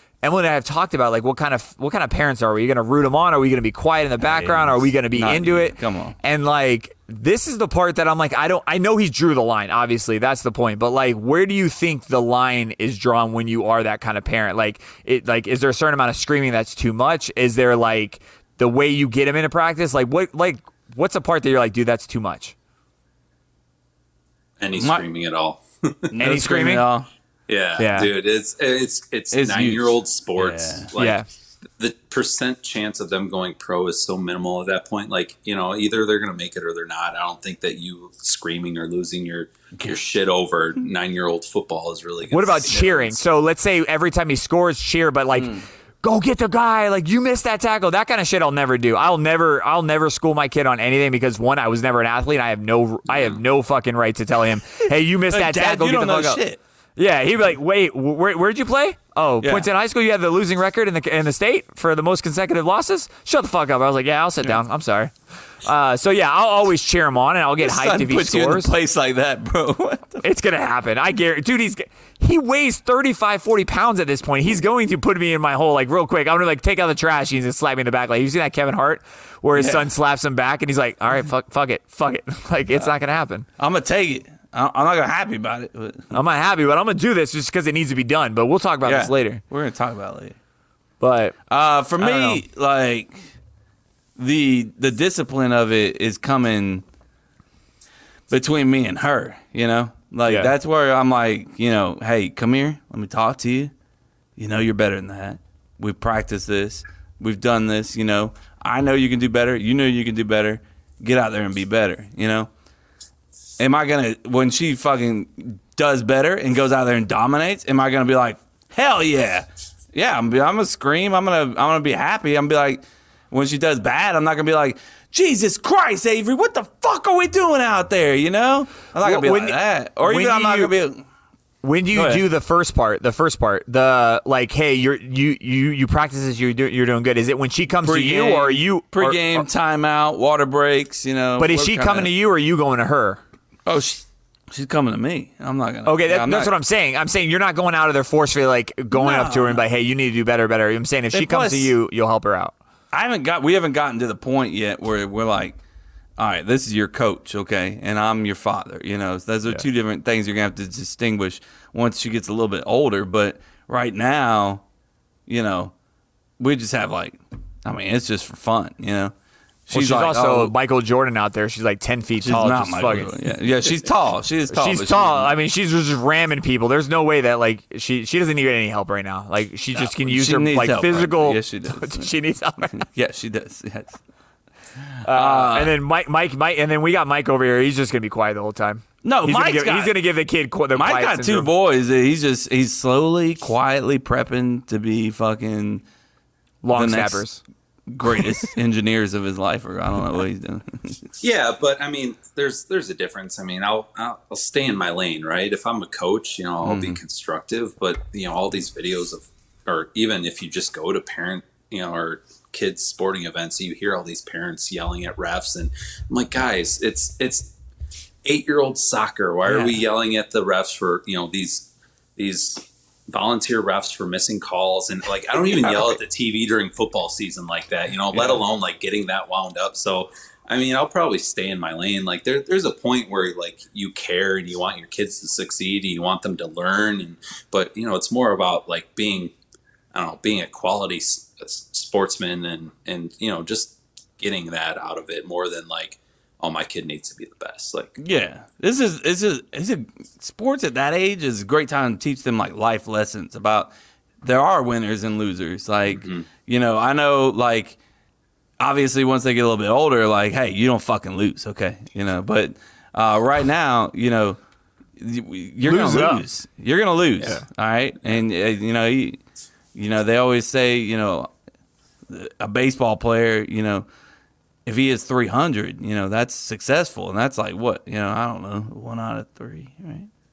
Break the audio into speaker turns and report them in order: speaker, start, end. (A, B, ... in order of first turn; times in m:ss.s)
0:00.2-0:22.5 A
0:04.2-0:06.2 B
0:24.6-0:26.1 C
0:24.8-0:25.0 B
0:26.1-0:27.1 B
0:26.2-0:26.9 A
0:27.5-0:31.2 C
0:27.8-0:28.1 A
0:29.3-0:30.9 B
0:31.0-0:31.2 A
0:31.8-0:43.2 C
0:42.3-0:56.4 A
0:45.4-0:45.6 B
0:55.3-0:56.6 B
0:57.0-1:05.1 A
0:59.4-0:59.7 B
1:05.6-1:08.7 A
1:07.6-1:10.2 B
1:10.2-1:23.5 A
1:19.6-1:19.9 B
1:23.6-1:26.2 B
1:26.1-1:29.4 A
1:28.8-1:30.4 B
1:31.0-1:31.4 A
1:31.5-1:33.2 B
1:32.0-1:32.4 A
1:34.2-1:36.8 B
1:38.3-1:43.7 B
1:40.2-1:40.5 A
1:44.4-1:52.5 B
1:53.6-2:11.0 B
2:09.0-2:10.7 A
2:11.6-2:19.4 A
2:11.9-2:12.2 B
2:17.8-2:22.1 B
2:21.4-2:23.2 A
2:23.6-2:26.5 B
2:25.8-2:32.5 A
2:28.9-2:29.6 B
2:31.1-2:31.7 B
2:32.9-2:35.6 B
2:36.2-2:44.6 B
2:45.3-2:45.7 B
2:46.4-2:49.1 B
2:49.7-2:50.5 B
2:49.7-2:53.1 A
2:52.2-2:55.3 B
2:54.5-3:02.8 A
2:59.7-3:02.1 B
3:02.6-3:04.0 B
3:04.9-3:05.8 B
3:05.0-3:11.5 A
3:09.0-3:10.0 B
3:10.7-3:15.8 B
3:16.6-3:17.4 A
3:16.7-3:17.2 B
3:17.9-3:21.0 B
3:21.2-3:37.5 C
3:26.6-3:27.0 B
3:38.2-3:59.3 C
3:39.4-3:39.8 B
3:59.9-4:08.0 C
4:08.0-4:13.7 B
4:14.2-4:17.8 B
4:15.9-4:16.3 C
4:18.6-4:24.4 B
4:25.0-4:29.2 B
4:25.6-4:26.2 A
4:29.7-4:31.3 B
4:32.1-4:33.8 B
4:34.6-4:40.1 B